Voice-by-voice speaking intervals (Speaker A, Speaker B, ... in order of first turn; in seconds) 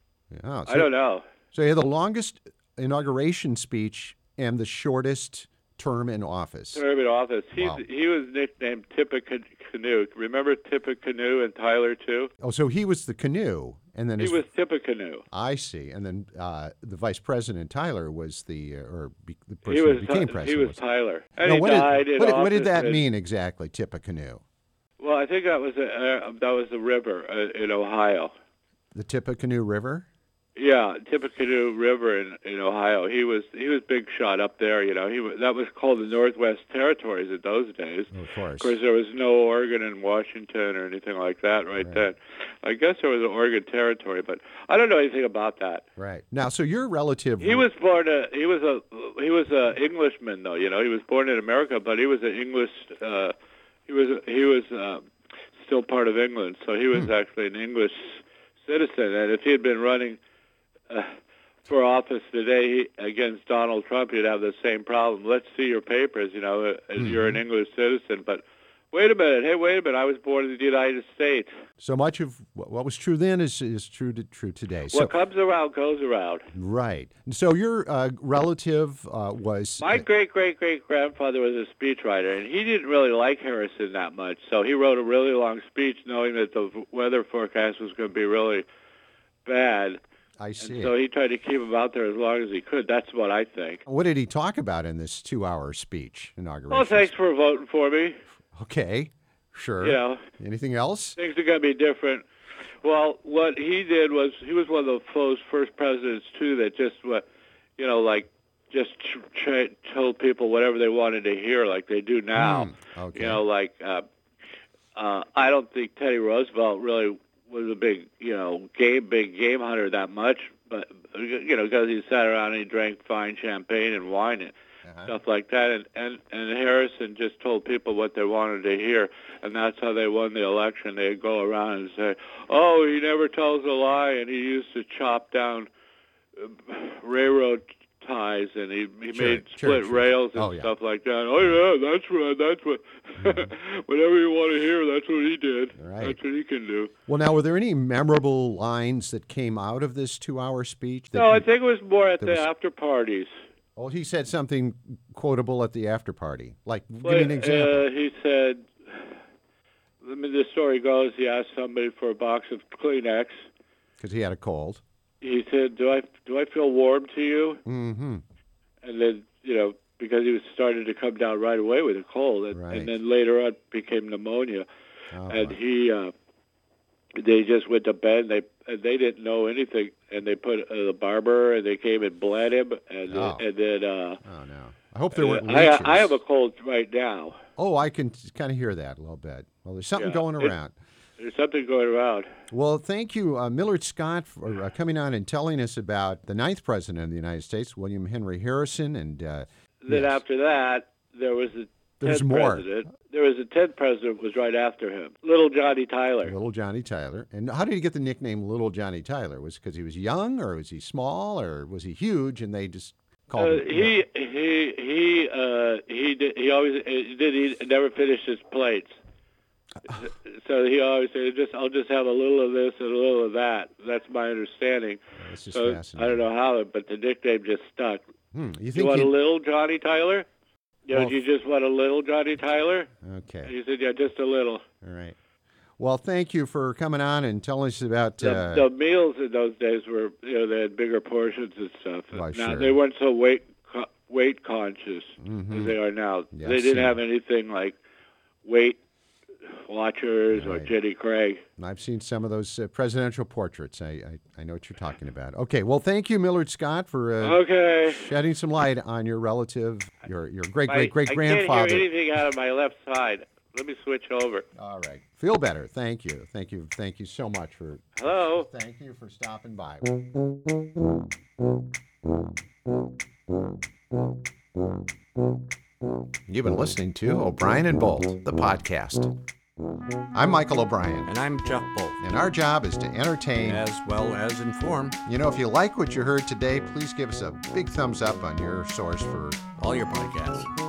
Speaker A: 0.3-0.9, 1.5-6.8, 7.6-7.8, 12.4-14.4, 15.3-20.8, 21.4-24.4, 28.9-30.1, 38.1-38.8, 41.8-42.1, 46.0-47.7, 67.0-67.4, 71.8-75.1, 76.5-80.0, 90.4-90.9, 93.9-97.1, 98.5-101.2, 112.4-113.4, 124.8-125.1, 139.1-140.7, 143.2-143.5, 145.8-146.2, 147.1-151.5, 152.2-152.5, 153.8-157.9, 164.0-164.8, 167.7-168.2, 172.5-172.9, 175.1-175.6, 183.1-183.5, 184.2-186.2, 187.6-190.8, 192.5-200.2, 202.0-202.7, 206.2-214.0, 225.2-226.2, 228.3-229.2, 230.9-231.2, 233.0-233.5, 234.8-235.2, 235.8-238.7, 242.1-242.8, 245.2-245.8, 246.3-247.0, 250.3-250.8, 251.6-261.9, 264.6-270.0, 276.3-279.1, 280.1-281.1, 282.0-283.7, 285.1-289.5
Speaker B: 0.7-1.2, 6.7-12.3, 14.2-15.2, 19.6-23.0, 25.0-28.3, 30.6-45.8, 47.4-53.3, 53.9-55.0, 55.6-60.2, 60.9-61.1, 61.7-71.5, 74.9-76.5, 79.8-88.7, 89.5-90.0, 90.6-93.8, 96.7-98.2, 99.8-100.3, 101.2-102.2, 102.8-107.2, 107.8-114.0, 115.0-124.5, 125.0-135.7, 136.4-146.9, 151.1-153.3, 157.0-159.1, 160.0-163.5, 165.2-167.6, 168.8-174.7, 175.3-176.1, 177.2-184.2, 185.1-187.4, 190.0-190.5, 191.2-192.3, 199.8-206.3, 213.4-218.9, 219.9-228.0, 228.7-230.3, 230.9-232.9, 233.4-234.6, 238.2-247.8, 248.4-248.8, 249.5-251.4, 257.2-258.1, 260.7-264.4, 268.0-268.5
Speaker C: 281.1-282.0, 283.4-285.0, 289.6-290.5